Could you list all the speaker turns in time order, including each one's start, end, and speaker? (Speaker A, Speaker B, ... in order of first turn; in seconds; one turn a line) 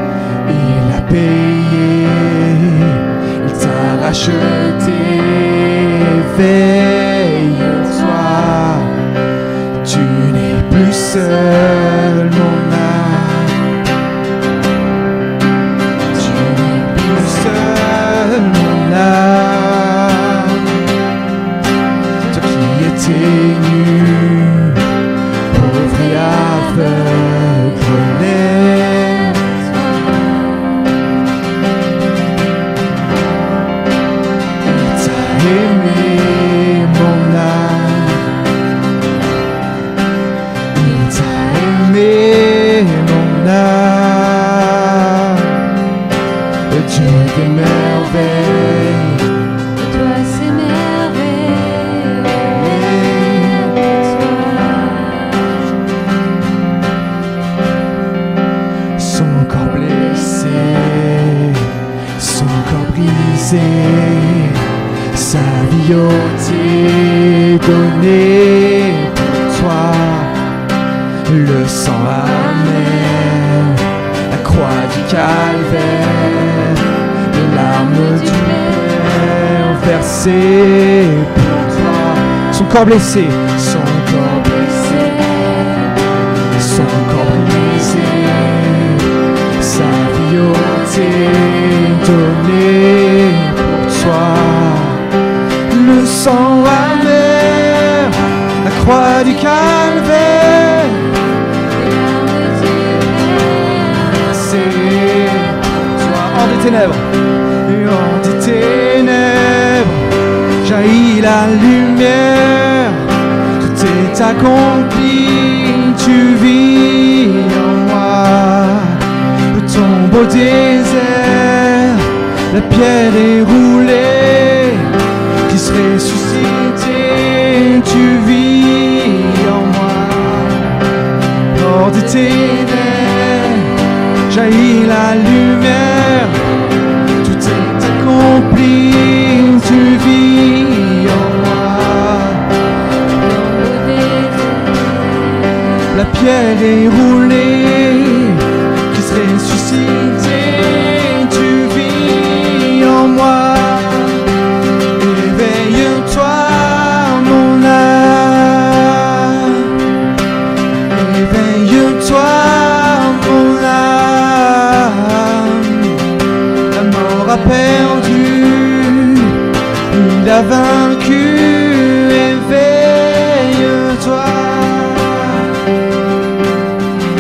Speaker A: 0.5-9.1
Speaker A: 9.8-13.6
Speaker A: 16.1-20.7
Speaker A: 22.3-24.9
Speaker A: 25.5-29.5
Speaker A: 34.6-38.3
Speaker A: 40.7-45.6
Speaker A: 46.7-49.3
Speaker A: 49.8-55.3
Speaker A: 59.0-70.5
Speaker A: 71.3-85.9
Speaker A: 86.5-95.1
Speaker A: 95.7-107.1
Speaker A: 107.7-130.8
Speaker A: 131.5-136.5
Speaker A: 137.2-142.5
Speaker A: 143.2-144.6
Speaker A: 145.8-154.3
Speaker A: 155.0-159.8
Speaker A: 160.9-166.1
Speaker A: 166.7-175.5